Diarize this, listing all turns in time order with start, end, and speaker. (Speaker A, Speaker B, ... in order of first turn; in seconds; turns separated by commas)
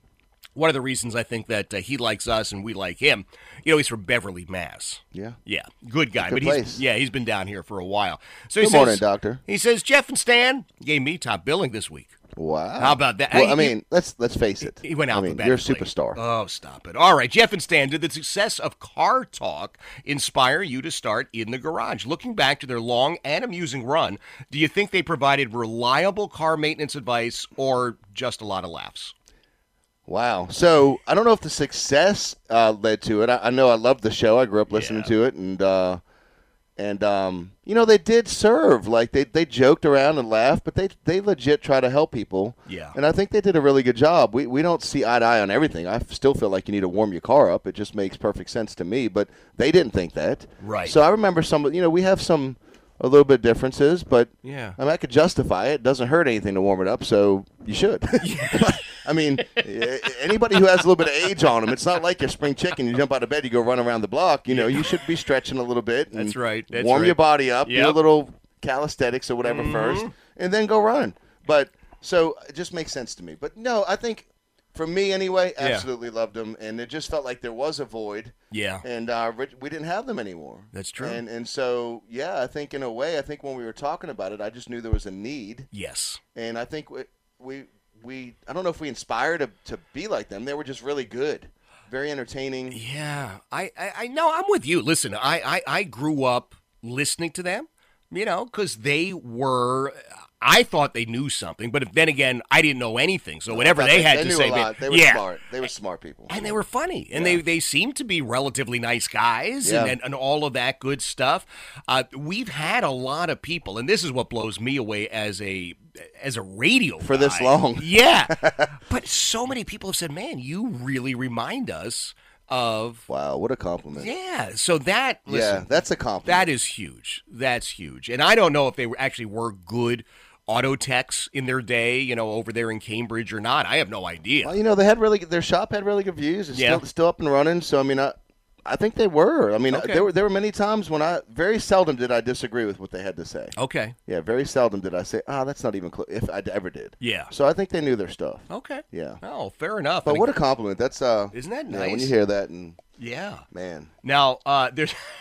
Speaker A: 0.6-12.1, Speaker B: 5.1-5.4, Speaker B: 6.2-6.8, Speaker B: 8.6-9.4, Speaker B: 12.3-16.2, Speaker A: 12.8-13.8, Speaker A: 14.6-29.1, Speaker B: 30.1-36.0, Speaker A: 34.7-35.1, Speaker B: 36.8-85.7, Speaker A: 42.7-43.0, Speaker A: 50.6-51.0, Speaker A: 54.4-54.8, Speaker A: 58.2-58.9, Speaker A: 64.5-65.0, Speaker A: 66.1-68.0, Speaker A: 69.4-70.1, Speaker A: 75.6-75.9, Speaker A: 78.5-78.8, Speaker A: 80.7-81.2, Speaker A: 85.7-86.2, Speaker B: 86.3-92.8, Speaker A: 92.7-105.2, Speaker B: 103.5-106.6, Speaker A: 106.3-123.0, Speaker B: 107.1-107.4, Speaker B: 109.6-109.9, Speaker B: 117.0-118.7, Speaker B: 123.1-124.1, Speaker A: 124.0-125.7, Speaker B: 125.3-126.5, Speaker A: 126.2-134.6, Speaker B: 134.4-143.5, Speaker A: 136.5-136.8, Speaker A: 139.7-140.1, Speaker A: 143.6-143.9, Speaker B: 144.1-149.2, Speaker A: 147.0-147.3, Speaker A: 148.5-150.3, Speaker B: 150.0-152.8, Speaker A: 151.3-152.1, Speaker A: 153.0-153.4, Speaker B: 153.5-153.9, Speaker A: 154.0-155.0